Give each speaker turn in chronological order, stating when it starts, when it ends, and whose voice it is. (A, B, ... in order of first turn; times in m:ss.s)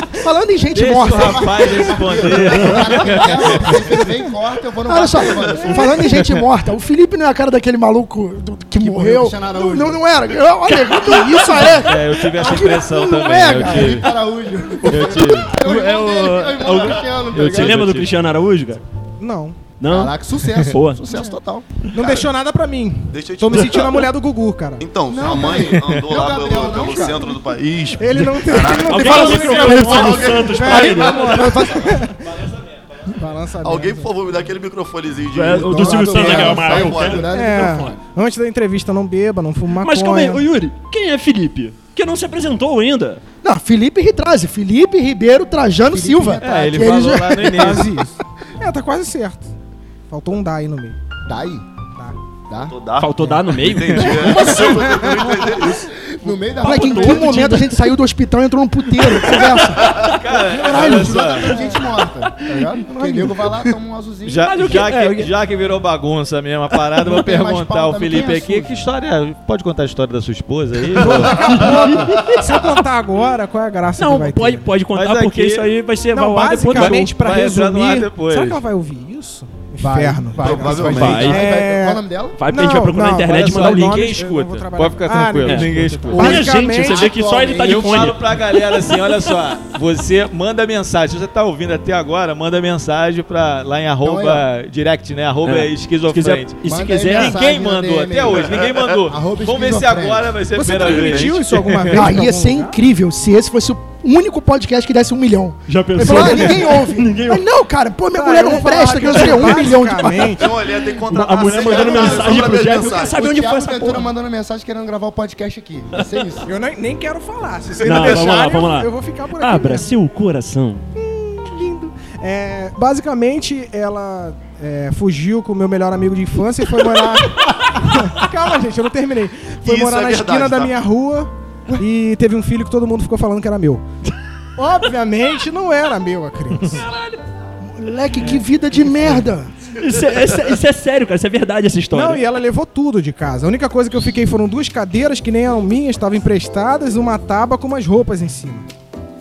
0:00.1-0:02.0 A
0:00.7-0:04.0 B
0:01.1-0:06.3 C
0:04.9-0:14.1 A
0:08.8-0:10.1 C
0:11.0-0:11.8 C
0:11.7-0:14.1 B
0:13.6-0:17.9 C
0:14.9-0:15.5 B
0:14.9-0:18.8 D
0:17.3-0:18.1 B
0:19.2-0:19.6 E
0:19.8-0:21.3 D
0:19.9-0:21.9 C
0:21.9-0:24.9 E
0:22.0-0:22.2 F
0:23.1-0:24.1 F
0:24.8-0:30.8 F
0:25.1-0:27.4 C
0:28.0-0:32.2 E
0:28.8-0:31.6 D
0:29.7-0:30.2 A
0:30.0-0:31.8 C
0:31.4-0:33.2 B
0:33.1-0:34.1 E
0:33.6-0:37.3 F
0:35.3-0:37.3 D
0:35.4-0:38.0 C
0:37.3-0:40.4 E
0:39.8-0:43.2 D
0:43.4-0:47.9 A
0:45.9-0:46.7 C
0:46.4-0:47.9 B
0:47.5-0:49.5 E
0:50.1-0:51.0 E
0:51.3-0:51.7 C
0:52.5-0:52.8 C
0:52.7-0:55.9 F
0:53.0-0:54.9 D
0:53.9-0:57.9 C
0:54.1-0:55.2 E
0:56.6-1:00.0 A
0:56.6-0:57.6 D
0:59.0-1:00.0 D
0:59.8-1:00.2 F
1:00.1-1:01.7 B
1:00.5-1:04.5 C
1:00.5-1:01.3 A
1:02.9-1:03.5 E
1:04.2-1:11.6 B
1:04.4-1:05.3 D
1:07.0-1:08.7 C
1:11.1-1:14.7 E
1:11.4-1:12.4 D
1:12.2-1:12.6 F
1:14.0-1:17.1 D
1:14.9-1:15.7 B
1:16.1-1:27.5 E
1:16.6-1:18.6 B
1:19.8-1:22.4 C
1:20.3-1:21.4 F
1:20.9-1:21.4 D
1:22.4-1:24.0 D
1:23.3-1:26.5 B
1:25.4-1:29.0 D
1:26.3-1:28.1 C
1:27.6-1:42.1 B
1:34.0-1:34.5 C
1:35.4-1:37.4 D
1:36.6-1:40.4 C
1:38.3-1:38.9 F
1:40.5-1:42.7 E
1:40.8-1:41.3 F
1:41.9-1:50.4 A
1:45.7-1:47.4 D
1:48.1-1:50.6 E
1:50.3-1:53.2 F
1:51.1-1:54.1 D
1:51.7-1:56.5 C
1:56.5-1:59.9 E
1:57.8-1:58.4 F
1:57.8-2:00.8 D
2:01.0-2:13.8 E
2:09.6-2:10.8 F
2:14.6-2:16.8 E
2:16.8-2:17.2 D
2:17.6-2:19.5 A
2:19.8-2:22.2 D
2:21.9-2:28.7 E